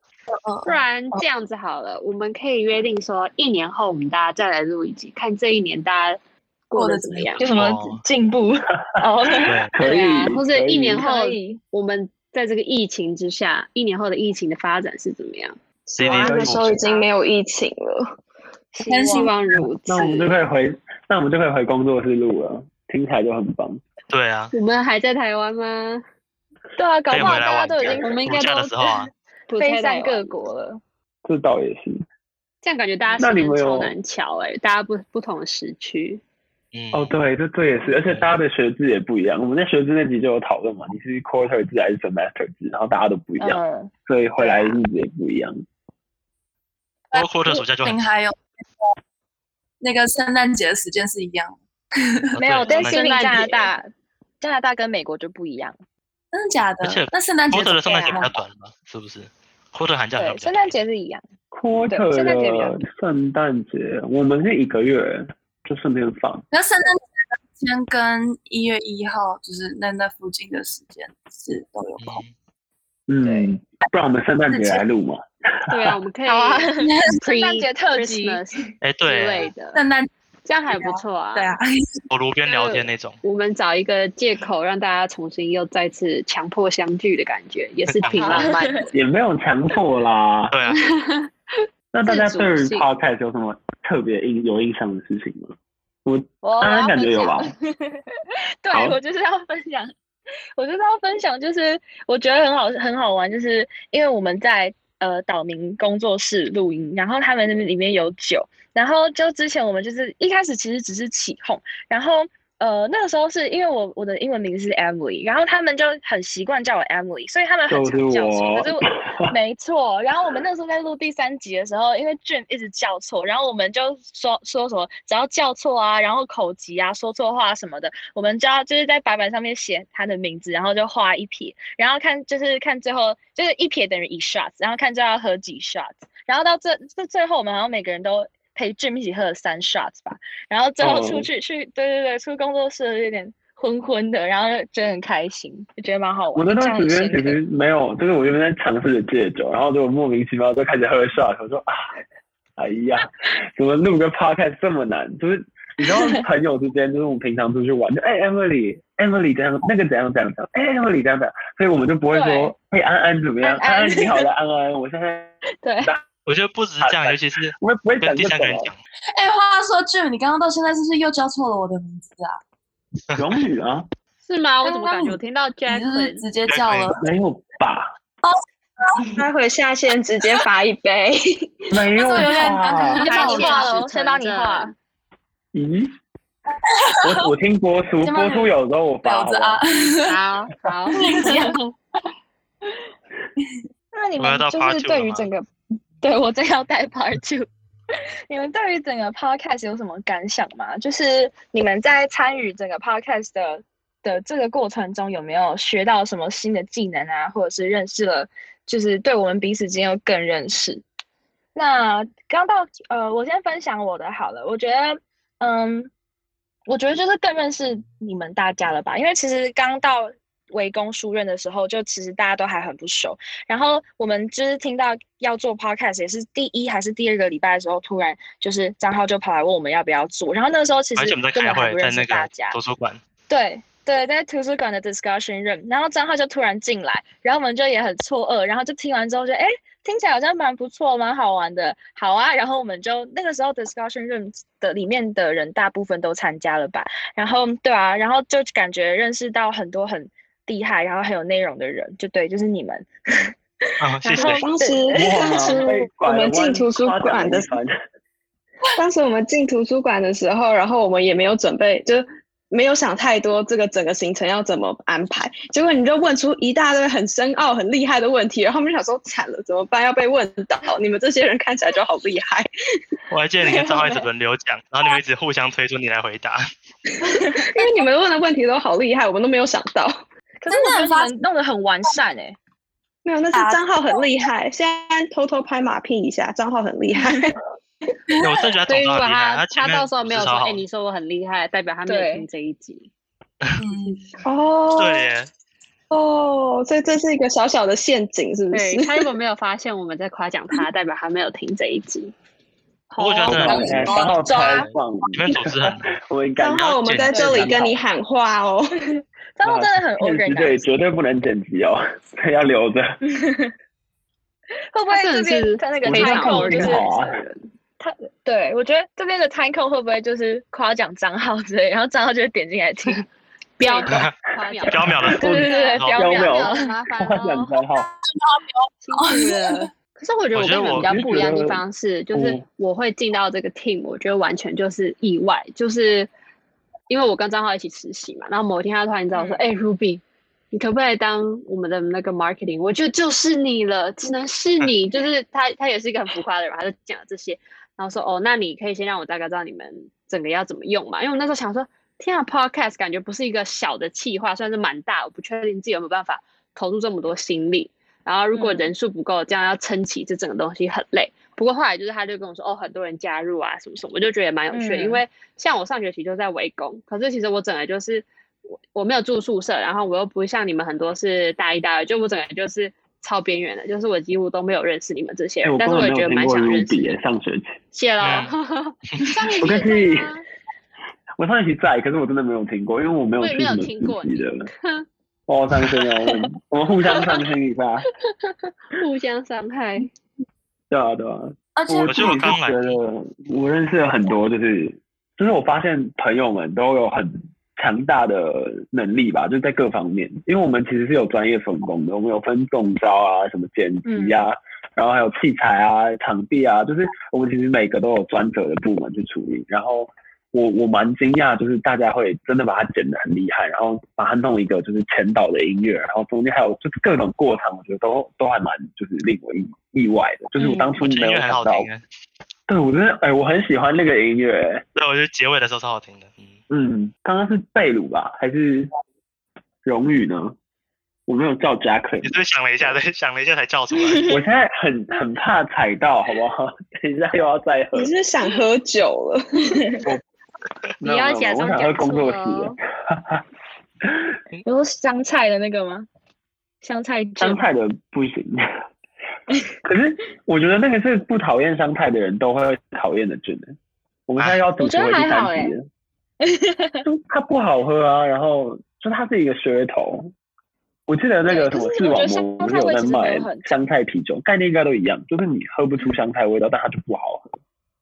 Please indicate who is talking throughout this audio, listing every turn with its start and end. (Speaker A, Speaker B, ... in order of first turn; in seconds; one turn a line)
Speaker A: 0.4-0.8
Speaker B: 0.6-7.5
Speaker A: 6.7-7.5
Speaker C: 7.4-10.3
Speaker D: 7.5-8.0
Speaker E: 9.0-11.0
Speaker D: 9.4-9.7
Speaker B: 9.8-15.6
Speaker C: 11.0-11.6
Speaker F: 15.9-18.1
Speaker D: 16.0-16.7
Speaker E: 16.2-16.8
Speaker C: 18.7-19.3
Speaker A: 18.9-19.4
Speaker B: 19.1-20.4
Speaker E: 19.9-23.8
Speaker D: 24.1-24.5
Speaker B: 24.5-26.0
Speaker C: 26.8-28.3
Speaker D: 27.1-29.1
Speaker B: 27.9-28.8
Speaker B: 29.5-30.4
Speaker C: 29.5-30.8
Speaker E: 31.2-32.0
Speaker B: 32.6-36.2
Speaker E: 33.2-34.0
Speaker D: 36.7-37.2
Speaker E: 36.9-45.6
Speaker D: 37.9-38.3
Speaker C: 43.4-44.8
Speaker A: 47.1-48.5
Speaker D: 47.1-48.0
Speaker A: 49.8-52.3
Speaker D: 52.3-53.1
Speaker C: 52.4-55.8
Speaker B: 52.7-53.7
Speaker A: 56.3-58.4
Speaker D: 56.8-60.7
Speaker C: 60.2-61.2
Speaker E: 61.5-66.4
Speaker C: 61.9-62.8
Speaker A: 66.5-72.2
Speaker D: 72.0-72.3
Speaker E: 73.1-76.0
Speaker C: 73.2-73.5
Speaker A: 74.5-74.8
Speaker B: 75.7-79.8
Speaker C: 76.2-78.4
Speaker A: 76.8-77.2
Speaker D: 78.8-79.5
Speaker A: 79.7-80.1
Speaker B: 80.5-81.5
Speaker A: 80.7-82.0
Speaker D: 82.1-83.2
Speaker B: 82.5-88.9
Speaker D: 87.9-88.5
Speaker C: 88.2-88.9
Speaker E: 88.9-90.6
Speaker D: 90.5-90.8
Speaker B: 90.8-91.3
Speaker E: 91.9-95.5
Speaker B: 92.0-92.8
Speaker E: 96.0-97.5
Speaker C: 96.4-98.0
Speaker C: 98.6-99.9
Speaker E: 98.7-99.0
Speaker C: 100.5-147.4
Speaker E: 117.7-119.3
Speaker E: 140.8-141.3
Speaker E: 146.3-151.9
Speaker E: 152.6-166.0
Speaker C: 162.1-162.5
Speaker C: 163.4-164.3
Speaker C: 165.6-165.9
Speaker D: 166.2-168.8
Speaker E: 166.8-168.7
Speaker A: 169.1-172.4
Speaker E: 173.2-173.9
Speaker B: 174.2-176.3
Speaker A: 174.6-177.0
Speaker D: 176.5-176.9
Speaker E: 177.0-177.9
Speaker F: 179.2-181.7
Speaker E: 181.7-183.0
Speaker A: 181.9-183.8
Speaker C: 182.9-184.7
Speaker B: 183.0-184.7
Speaker E: 185.5-185.9
Speaker A: 186.7-187.2
Speaker E: 187.0-189.6
Speaker A: 188.0-188.5
Speaker A: 189.0-190.2
Speaker B: 190.1-191.4
Speaker A: 190.9-191.6
Speaker C: 193.9-195.4
Speaker D: 194.2-195.3
Speaker C: 196.0-197.5
Speaker C: 198.3-210.8
Speaker C: 211.5-215.9
Speaker C: 216.7-232.6
Speaker D: 230.9-233.0
Speaker C: 233.3-253.3
Speaker D: 253.8-254.4
Speaker C: 254.0-255.7
Speaker F: 254.2-257.5
Speaker E: 254.9-257.7
Speaker F: 258.8-272.5
Speaker D: 273.1-276.4
Speaker C: 273.4-274.0
Speaker F: 277.0-280.0
Speaker C: 277.1-277.6
Speaker C: 280.4-282.4
Speaker A: 280.5-281.1
Speaker F: 283.0-287.4
Speaker A: 283.3-283.7
Speaker A: 288.1-288.4
Speaker D: 288.2-290.6
Speaker B: 288.7-292.9
Speaker C: 291.9-292.2
Speaker A: 293.6-294.1
Speaker F: 294.2-295.1
Speaker D: 294.8-295.3
Speaker F: 295.9-299.1
Speaker B: 298.5-302.1
Speaker B: 303.0-303.7
Speaker D: 303.0-305.9
Speaker E: 303.3-307.8
Speaker A: 303.3-304.7
Speaker F: 306.4-308.8
Speaker D: 306.5-307.5
Speaker C: 307.1-307.5
Speaker C: 309.4-310.6
Speaker E: 309.4-313.0
Speaker C: 313.0-313.5
Speaker C: 314.7-316.9
Speaker B: 314.9-317.4
Speaker E: 315.8-317.2
Speaker C: 317.8-323.0
Speaker B: 323.6-327.6
Speaker C: 323.6-326.7
Speaker D: 324.7-326.0
Speaker E: 324.8-325.4
Speaker E: 325.9-327.9
Speaker A: 328.2-329.7
Speaker B: 328.8-336.1
Speaker D: 330.3-331.0
Speaker E: 330.8-332.4
Speaker B: 336.9-368.1
Speaker C: 339.1-339.4
Speaker C: 358.3-358.7
Speaker C: 364.5-365.0
Speaker B: 368.7-377.0
Speaker E: 375.4-377.6
Speaker B: 377.7-380.2
Speaker D: 378.0-378.3
Speaker E: 379.4-380.1
Speaker E: 381.2-384.5
Speaker B: 383.2-384.9
Speaker E: 385.3-387.9
Speaker B: 388.7-389.9
Speaker E: 390.7-421.7
Speaker A: 391.6-392.4
Speaker D: 391.8-392.8
Speaker C: 403.9-404.2
Speaker C: 420.4-420.7
Speaker D: 420.8-421.8
Speaker E: 422.5-424.6
Speaker D: 424.8-426.4
Speaker E: 426.5-428.7
Speaker E: 429.6-430.4
Speaker E: 431.1-432.1
Speaker D: 432.0-434.1
Speaker E: 434.0-437.9
Speaker F: 437.7-439.8
Speaker E: 440.8-443.2
Speaker B: 440.8-442.6
Speaker C: 444.4-445.9
Speaker C: 446.6-447.4
Speaker E: 447.2-448.5
Speaker E: 449.6-453.6
Speaker E: 454.1-455.7
Speaker C: 454.6-455.5
Speaker C: 456.2-456.8
Speaker E: 456.8-460.1
Speaker E: 460.9-467.4
Speaker C: 461.3-463.5